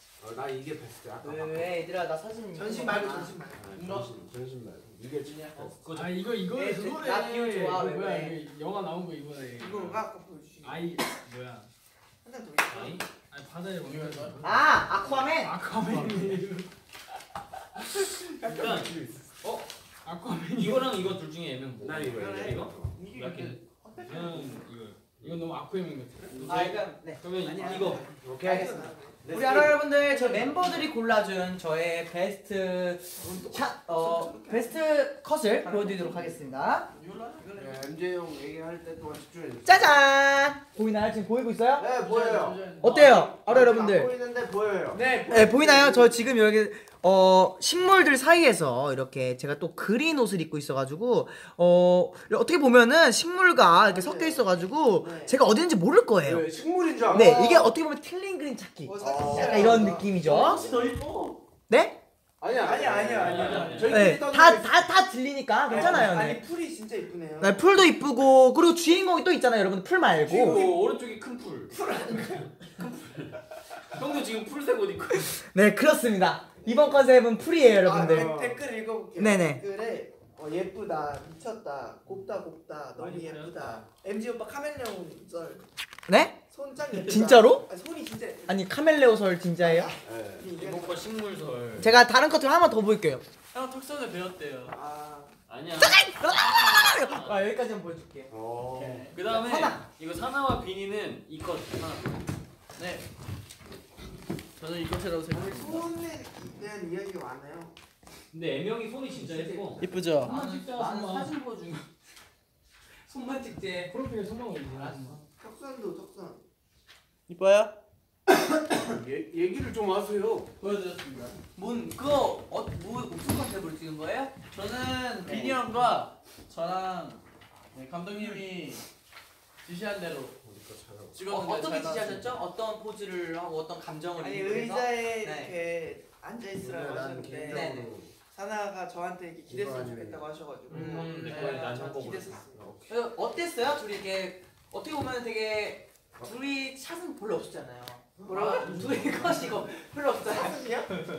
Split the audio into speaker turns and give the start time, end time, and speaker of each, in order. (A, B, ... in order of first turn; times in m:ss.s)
0:00.2-0:01.8 A
0:01.2-0:03.3 B
0:02.5-0:03.7 C
0:03.5-0:05.8 A
0:03.7-0:04.1 D
0:05.2-0:05.7 D
0:05.6-0:06.3 E
0:05.9-0:10.0 F
0:06.5-0:08.4 B
0:09.6-0:11.0 C
0:10.6-0:11.7 F
0:12.2-0:13.0 C
0:12.7-0:13.0 E
0:13.2-0:16.7 F
0:13.8-0:14.4 D
0:14.4-0:15.6 B
0:18.0-0:19.3 A
0:18.4-0:19.0 E
0:20.0-0:21.0 F
0:20.6-0:23.6 E
0:21.8-0:23.0 A
0:22.1-0:22.6 C
0:23.0-0:23.4 B
0:23.8-0:24.6 C
0:23.9-0:27.0 F
0:26.4-0:36.9 B
0:27.2-0:28.1 E
0:27.5-0:29.3 C
0:28.2-0:29.8 A
0:30.1-0:30.9 D
0:33.2-0:34.8 C
0:35.6-0:36.4 D
0:36.9-0:37.6 D
0:37.6-0:39.9 A
0:39.6-0:41.9 B
0:41.8-0:46.1 A
0:41.9-0:43.4 D
0:42.8-0:44.1 B
0:45.2-0:56.5 B
0:53.7-0:55.4 C
0:56.2-0:57.7 A
0:57.1-1:00.6 B
0:57.1-0:57.7 C
0:58.8-1:00.2 C
0:59.0-1:01.0 A
1:00.1-1:01.4 D
1:01.7-1:02.0 B
1:02.4-1:04.9 A
1:02.5-1:04.0 C
1:03.1-1:04.0 E
1:03.4-1:04.0 D
1:03.9-1:06.4 B
1:05.7-1:07.9 C
1:07.4-1:10.6 B
1:10.2-1:13.3 E
1:11.7-1:12.5 C
1:13.9-1:15.4 E
1:15.4-1:18.3 B
1:16.6-1:17.1 C
1:17.8-1:25.6 C
1:17.9-1:18.6 A
1:19.2-1:19.6 B
1:23.0-1:23.9 F
1:26.1-1:26.4 B
1:26.5-1:28.7 C
1:27.0-1:27.6 B
1:28.5-1:29.9 B
1:29.6-1:31.1 C
1:30.0-1:30.5 A
1:30.5-1:32.0 E
1:31.8-1:33.2 B
1:33.5-1:34.8 D
1:34.7-1:35.4 C
1:35.5-1:37.5 E
1:35.8-1:38.3 B
1:38.3-1:39.1 A
1:38.7-1:39.2 D
1:39.1-1:42.4 E
1:39.2-1:39.8 B
1:42.8-1:43.1 D
1:44.6-1:45.9 D
1:45.3-1:47.7 C
1:48.3-1:50.0 E
1:49.1-1:51.9 B
1:49.8-1:50.4 D
1:50.2-1:51.4 F
1:53.1-1:53.9 B
1:53.8-1:55.2 F
1:54.7-1:55.2 B
1:55.4-1:56.4 C
1:57.3-1:57.8 D
1:58.7-2:00.5 A
2:00.6-2:01.4 D
2:01.6-2:04.4 B
2:04.5-2:07.2 D
2:05.3-2:05.6 B
2:07.7-2:08.8 D
2:09.6-2:10.4 D
2:10.4-2:11.2 A
2:11.1-2:12.3 D
2:11.3-2:15.5 B
2:14.2-2:22.6 C
2:16.6-2:18.1 A
2:17.5-2:17.9 B
2:19.5-2:20.2 A
2:20.7-2:22.5 E
2:20.7-2:21.3 B
2:20.7-2:21.9 D
2:22.6-2:22.9 A
2:22.9-2:30.6 B
2:28.2-2:28.9 C
2:28.3-2:28.8 D
2:28.8-2:29.4 F
2:30.2-2:30.9 C